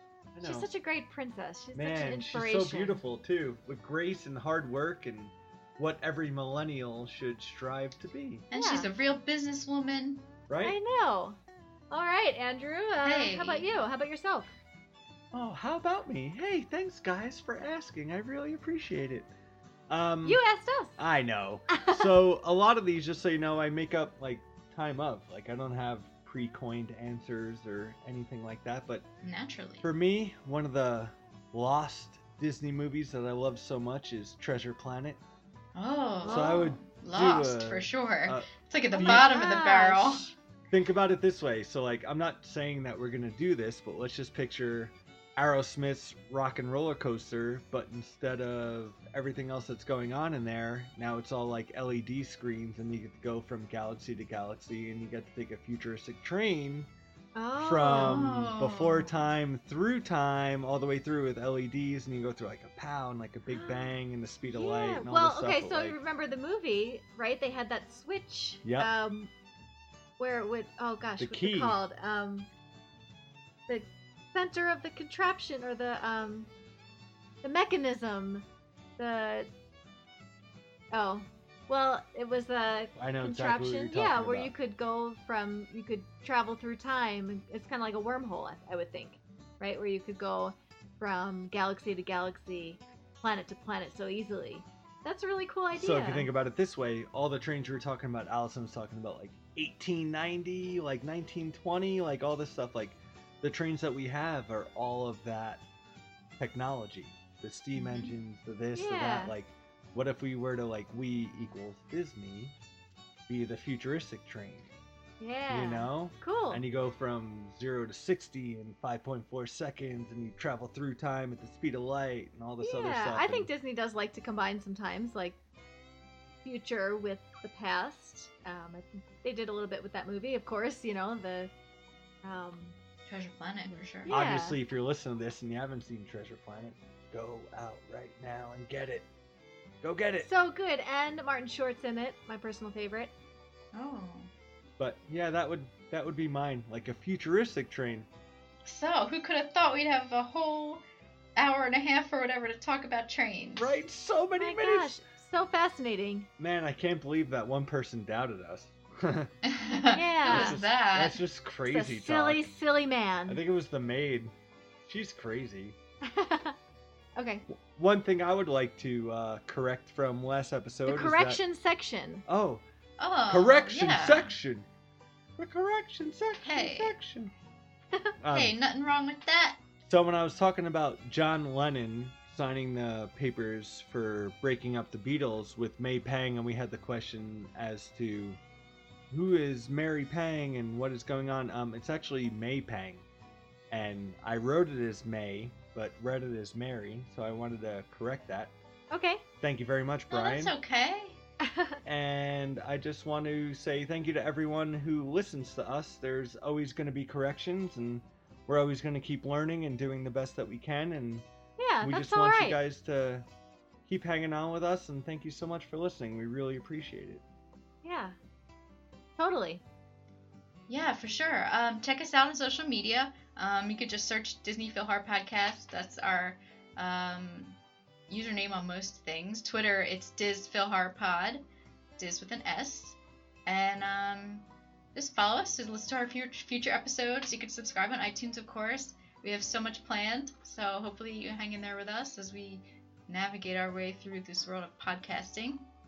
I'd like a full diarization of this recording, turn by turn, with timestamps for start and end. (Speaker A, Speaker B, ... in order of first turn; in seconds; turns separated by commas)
Speaker A: 0.3-0.7, Speaker B: 0.4-3.0, Speaker A: 1.8-8.5, Speaker C: 8.5-10.3, Speaker B: 8.5-8.9, Speaker A: 10.5-10.8, Speaker B: 10.6-11.4, Speaker B: 11.9-14.5, Speaker C: 13.0-13.7, Speaker A: 15.3-19.3, Speaker A: 19.9-20.4, Speaker B: 20.2-20.9, Speaker A: 21.0-29.1, Speaker B: 21.7-22.2, Speaker C: 29.2-29.9, Speaker A: 29.8-35.2, Speaker C: 35.8-40.3, Speaker B: 36.2-36.7, Speaker A: 36.2-39.3, Speaker B: 39.0-40.3, Speaker A: 40.7-56.9, Speaker B: 57.4-58.3, Speaker A: 57.6-66.0, Speaker C: 57.9-59.1, Speaker B: 63.5-64.0, Speaker B: 64.5-69.3, Speaker A: 68.6-68.9, Speaker B: 70.2-72.5, Speaker A: 71.2-71.8, Speaker B: 73.7-76.5, Speaker B: 77.4-78.4, Speaker B: 79.0-79.5, Speaker B: 80.9-96.3, Speaker A: 83.0-84.5, Speaker A: 95.7-105.7, Speaker A: 106.4-112.5, Speaker C: 107.8-108.1, Speaker B: 108.7-109.3, Speaker A: 113.3-114.7, Speaker B: 115.2-116.7, Speaker A: 115.5-123.5, Speaker B: 122.6-125.4, Speaker B: 126.4-131.5, Speaker B: 132.2-132.8, Speaker C: 133.1-134.2, Speaker B: 134.1-134.6, Speaker A: 134.1-139.1, Speaker A: 139.8-140.3, Speaker B: 140.2-143.1, Speaker C: 143.7-144.3, Speaker A: 144.8-148.1, Speaker C: 148.7-150.8, Speaker C: 151.4-153.8, Speaker A: 153.6-154.9, Speaker B: 154.4-156.3, Speaker A: 156.4-159.3, Speaker C: 159.4-161.2, Speaker B: 159.9-160.6, Speaker A: 160.3-162.5, Speaker B: 161.7-163.4, Speaker A: 163.3-164.3, Speaker A: 164.9-165.8, Speaker B: 166.1-166.6, Speaker B: 167.2-167.4, Speaker A: 167.5-171.4, Speaker B: 170.9-172.2, Speaker A: 172.3-172.6, Speaker C: 173.0-174.3, Speaker A: 173.3-174.7, Speaker A: 175.4-177.3, Speaker C: 176.4-176.9, Speaker A: 178.2-178.5, Speaker C: 178.3-179.6, Speaker A: 179.8-188.4, Speaker A: 189.1-193.1, Speaker A: 193.7-198.5, Speaker B: 198.9-199.2, Speaker A: 199.4-200.5, Speaker C: 200.1-201.2, Speaker B: 201.4-201.8, Speaker A: 201.8-211.3, Speaker B: 211.6-212.6, Speaker A: 211.8-213.2, Speaker A: 213.9-217.2, Speaker B: 217.8-218.2, Speaker B: 219.2-219.6, Speaker C: 220.7-227.6, Speaker C: 228.1-231.4, Speaker C: 232.0-245.6